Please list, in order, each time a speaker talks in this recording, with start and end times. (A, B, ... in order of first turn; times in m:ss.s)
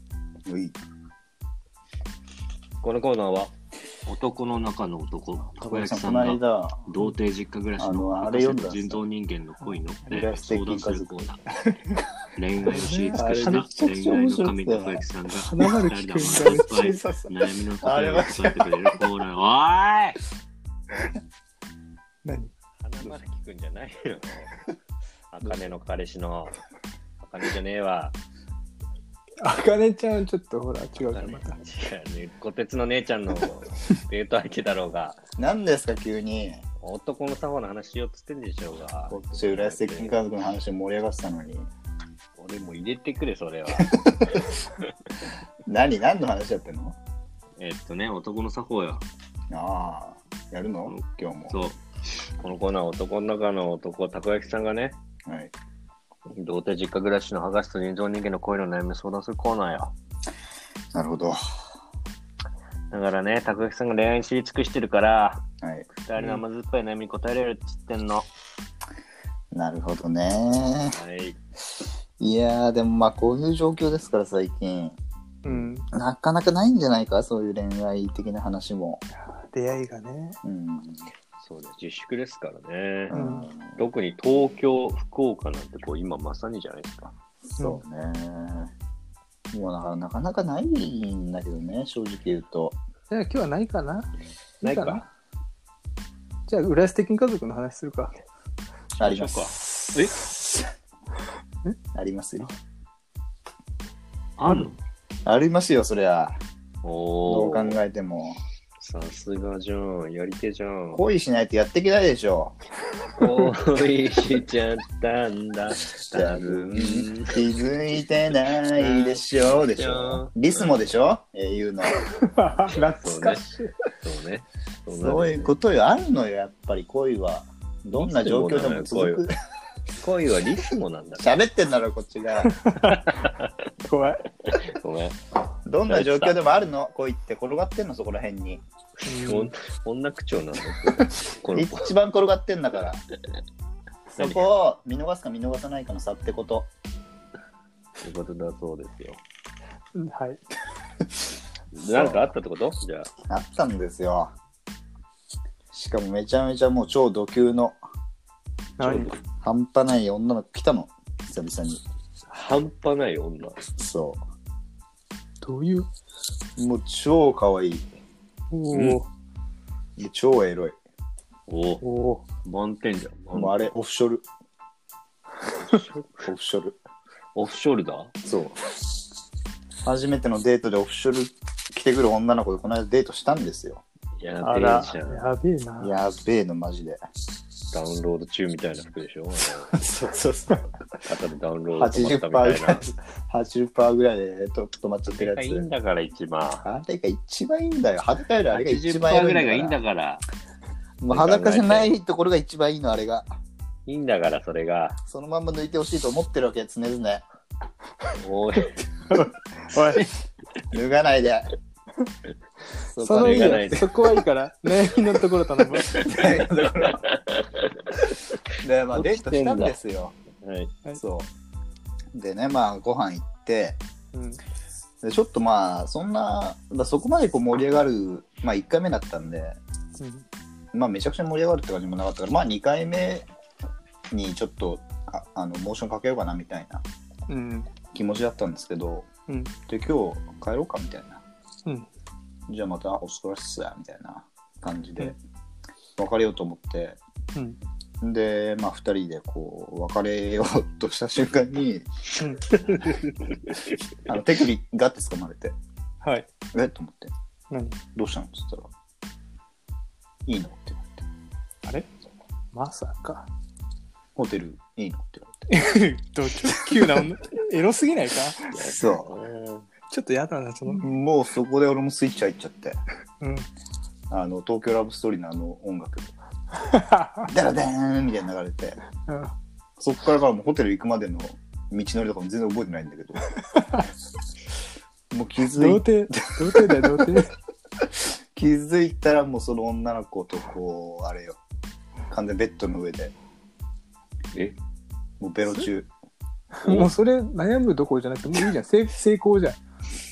0:00.4-0:00.8 A
0:02.8-0:03.5 B
0:04.0-0:11.4 B
0:05.6-0:06.9 A
0:07.8-0:09.0 A
0:10.1-0:11.2 A
0:12.4-0:20.2 B
0:12.6-0:13.7 C
0:13.1-0:15.0 A
0:15.3-0:16.8 C
0:16.3-0:19.0 A
0:22.2-0:22.5 C
0:22.8-0:24.5 B
0:25.3-0:26.6 B
0:25.4-0:25.7 A
0:27.2-0:28.2 B
0:29.4-0:31.6 C
0:31.1-0:35.2 B
0:35.4-0:36.6 A
0:36.8-0:40.2 B
0:39.1-0:41.7 A
0:42.4-0:44.9 B
0:43.8-0:44.5 A
0:45.6-0:47.0 A
0:47.6-0:49.0 B
0:49.5-0:51.6 A
0:50.9-0:51.8 B
0:52.4-0:55.0 B
0:55.3-0:55.5 A
0:56.3-0:59.9 B
1:00.9-1:01.4 A
1:02.9-1:05.4 B
1:05.6-1:05.9 A
1:06.0-1:08.2 B
1:09.5-1:11.0 A
1:10.9-1:11.4 B
1:12.2-1:15.0 A
1:15.4-1:15.9 C
1:15.9-1:19.0 A
1:19.2-1:20.4 C
1:20.4-1:21.1 A
1:21.4-1:23.2 B
1:23.1-1:23.8 A
1:23.1-1:23.4 C
1:23.7-1:27.1 B
1:27.6-1:28.7 A
1:29.5-1:32.8 A
1:33.1-1:34.1 C
1:34.6-1:35.0 B
1:34.6-1:35.0 C
1:36.5-1:38.1 C
1:39.0-1:40.7 A
1:39.0-1:40.1 B
1:41.9-1:42.5 A
1:44.4-1:44.8 B
1:45.2-1:46.4 A
1:46.8-1:47.8 B
1:47.2-1:48.4 A
1:48.8-1:51.0 B
1:50.9-1:52.6 A
1:53.2-1:57.4 B
1:56.1-2:02.0 A
1:58.8-2:00.8 B
2:01.9-2:03.7 C
2:03.0-2:05.5 B
2:04.9-2:09.3 A
2:07.9-2:09.2 B
2:10.0-2:11.3 B
2:11.2-2:12.6 A
2:12.4-2:13.2 C
2:12.9-2:13.5 B
2:13.8-2:14.2 C
2:14.4-2:15.2 B
2:15.6-2:18.6 A
2:15.9-2:16.4 B
2:19.1-2:19.5 C
2:19.1-2:21.8 B
2:21.5-2:23.0 A
2:24.2-2:24.4 B
2:24.2-2:26.7 A
2:28.0-2:29.2 B
2:30.0-2:30.4 C
2:31.7-2:33.1 B
2:31.9-2:32.3 A
2:33.2-2:34.3 A
2:35.7-2:37.8 A
2:38.8-2:39.1 C
2:38.8-2:39.1 B
2:39.3-2:41.8 A
2:42.3-2:43.6 B
2:43.8-2:44.2 A
2:45.4-2:45.9 C
2:46.6-2:47.8 A
2:48.5-2:49.1 C
2:48.7-2:49.0 B
2:50.0-2:50.8 A
2:51.5-2:51.8 B
2:51.8-2:52.2 C
2:52.4-2:53.7 B
2:53.3-2:54.2 A
2:55.6-2:56.2 B
2:56.2-2:56.8 A
2:57.3-2:58.1 B
2:58.2-2:58.7 A
2:59.8-3:03.8 A
3:04.2-3:05.2 B
3:04.4-3:05.9 C
3:05.8-3:07.0 A
3:07.7-3:09.8 B
3:09.7-3:10.6 A
3:11.0-3:12.8 B
3:11.7-3:15.7 A
3:15.1-3:16.6 B
3:16.6-3:19.8 A
3:18.5-3:20.2 B
3:21.0-3:23.4 A
3:21.1-3:21.9 B
3:23.8-3:25.0 B
3:25.0-3:27.2 A
3:28.2-3:28.7 B
3:29.1-3:30.1 C
3:30.7-3:31.5 A
3:32.9-3:33.8 A
3:33.0-3:36.0 C
3:33.1-3:34.0 B
3:35.7-3:37.0 A
3:35.9-3:37.8 B
3:38.6-3:40.1 A
3:38.9-3:39.8 B
3:40.4-3:40.7 B
3:41.0-3:41.3 A
3:42.1-3:43.8 A
3:44.1-3:44.4 C
3:45.0-3:49.6 A
3:50.0-3:50.2 C
3:50.7-3:53.3 A
3:54.1-3:56.8 A
3:57.3-3:57.7 C
3:57.9-3:59.1 A
3:59.7-4:01.2 A
4:02.5-4:05.2 A
4:06.0-4:07.0 A
4:08.0-4:11.8 A
4:12.5-4:13.8 B
4:14.0-4:15.6 A
4:16.0-4:16.3 C
4:16.5-4:17.1 A
4:17.5-4:17.8 C
4:17.9-4:18.7 A
4:20.2-4:21.0 A
4:22.5-4:23.3 C
4:24.1-4:25.4 A
4:25.5-4:28.6 C
4:26.7-4:27.0 A
4:28.5-4:29.7 B
4:28.6-4:29.1 A
4:29.9-4:30.9 C
4:30.7-4:32.8 A
4:33.2-4:33.5 C
4:34.1-4:36.1 A
4:36.6-4:37.3 C
4:37.3-4:38.8 A
4:39.1-4:39.3 C
4:39.8-4:43.2 A
4:43.5-4:43.8 C
4:45.1-4:47.2 A
4:45.6-4:47.3 C
4:48.0-4:51.4 A
4:52.1-4:53.1 A
4:55.2-4:55.9 A
4:56.5-4:59.6 C